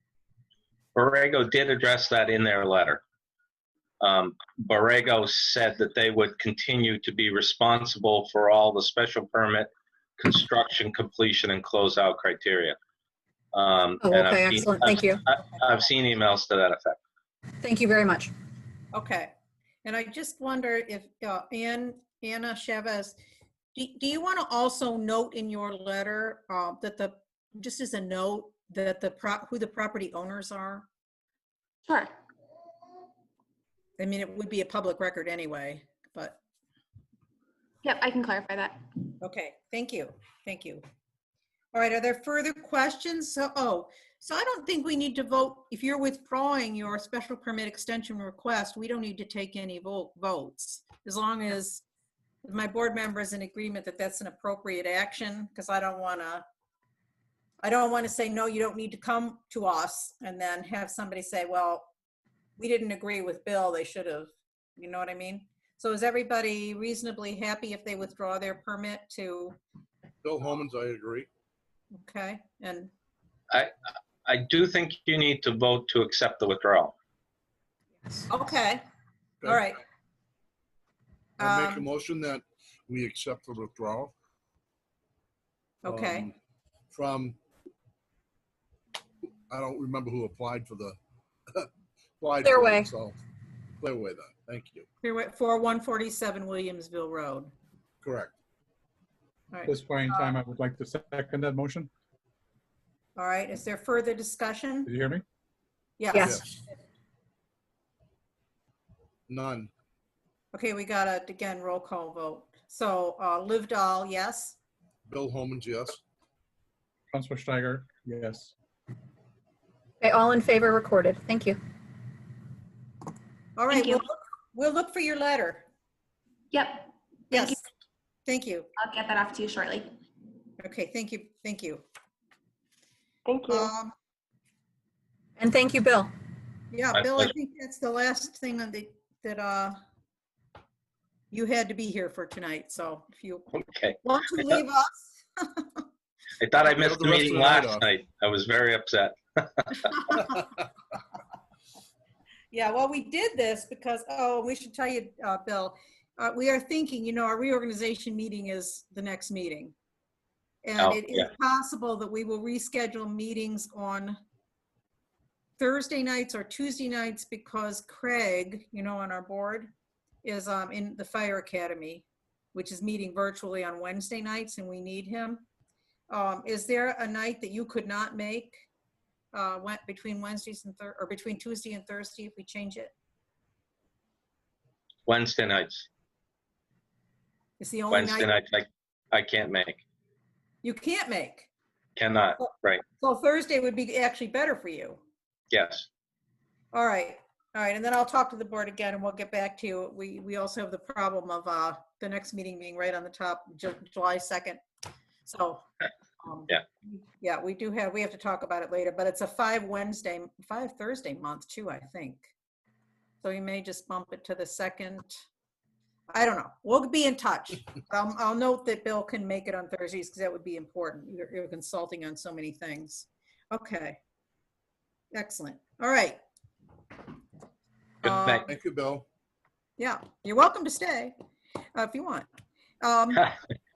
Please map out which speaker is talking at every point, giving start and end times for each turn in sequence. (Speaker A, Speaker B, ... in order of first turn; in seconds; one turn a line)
Speaker A: 0.9-3.0
Speaker A: 4.0-12.8
Speaker A: 13.5-16.9
Speaker B: 14.0-15.2
Speaker B: 17.6-18.3
Speaker C: 18.9-19.3
Speaker C: 19.8-23.1
Speaker C: 23.8-30.9
Speaker D: 31.9-32.1
Speaker C: 34.0-36.4
Speaker D: 37.8-38.8
Speaker C: 39.2-40.8
Speaker C: 41.7-51.8
Speaker C: 52.4-56.4
Speaker C: 57.6-61.9
Speaker C: 62.6-69.5
Speaker E: 70.2-71.3
Speaker C: 71.9-72.9
Speaker A: 74.2-76.9
Speaker C: 78.3-78.8
Speaker C: 79.5-79.8
Speaker C: 81.4-81.8
Speaker E: 81.4-84.1
Speaker C: 85.8-86.3
Speaker E: 85.9-86.3
Speaker E: 86.9-87.4
Speaker E: 89.5-91.0
Speaker E: 92.2-93.2
Speaker B: 92.4-92.9
Speaker E: 93.8-94.8
Speaker C: 95.0-97.5
Speaker E: 98.0-98.3
Speaker C: 99.5-100.3
Speaker F: 99.7-101.9
Speaker C: 103.2-104.9
Speaker F: 104.8-105.2
Speaker C: 106.0-106.4
Speaker B: 106.1-106.4
Speaker E: 106.2-106.4
Speaker E: 109.3-109.7
Speaker C: 110.5-114.6
Speaker E: 115.1-116.0
Speaker F: 117.1-118.5
Speaker B: 120.0-121.6
Speaker C: 123.5-125.7
Speaker D: 123.7-124.0
Speaker D: 126.5-127.6
Speaker C: 127.3-127.6
Speaker C: 128.2-128.7
Speaker D: 128.8-129.9
Speaker C: 130.6-131.8
Speaker D: 133.2-133.7
Speaker C: 133.5-133.9
Speaker B: 135.4-136.1
Speaker C: 136.7-139.8
Speaker C: 141.3-143.5
Speaker A: 143.5-144.0
Speaker C: 144.0-145.8
Speaker A: 146.4-150.1
Speaker E: 146.7-147.9
Speaker C: 152.5-159.7
Speaker C: 160.6-164.2
Speaker A: 160.8-161.3
Speaker C: 165.6-169.7
Speaker C: 170.2-175.4
Speaker C: 176.1-178.6
Speaker C: 179.3-182.9
Speaker A: 185.1-185.9
Speaker C: 187.6-188.3
Speaker A: 187.9-189.8
Speaker C: 190.6-191.5
Speaker A: 191.9-192.8
Speaker C: 193.0-195.0
Speaker A: 195.5-195.8
Speaker C: 196.7-204.6
Speaker C: 205.2-205.6
Speaker C: 206.2-212.3
Speaker C: 213.2-215.2
Speaker C: 216.1-224.0
Speaker C: 225.1-226.2
Speaker C: 228.0-228.5
Speaker A: 228.0-228.5
Speaker E: 228.5-229.0
Speaker C: 229.8-231.1
Speaker C: 231.7-232.3
Speaker C: 232.8-233.3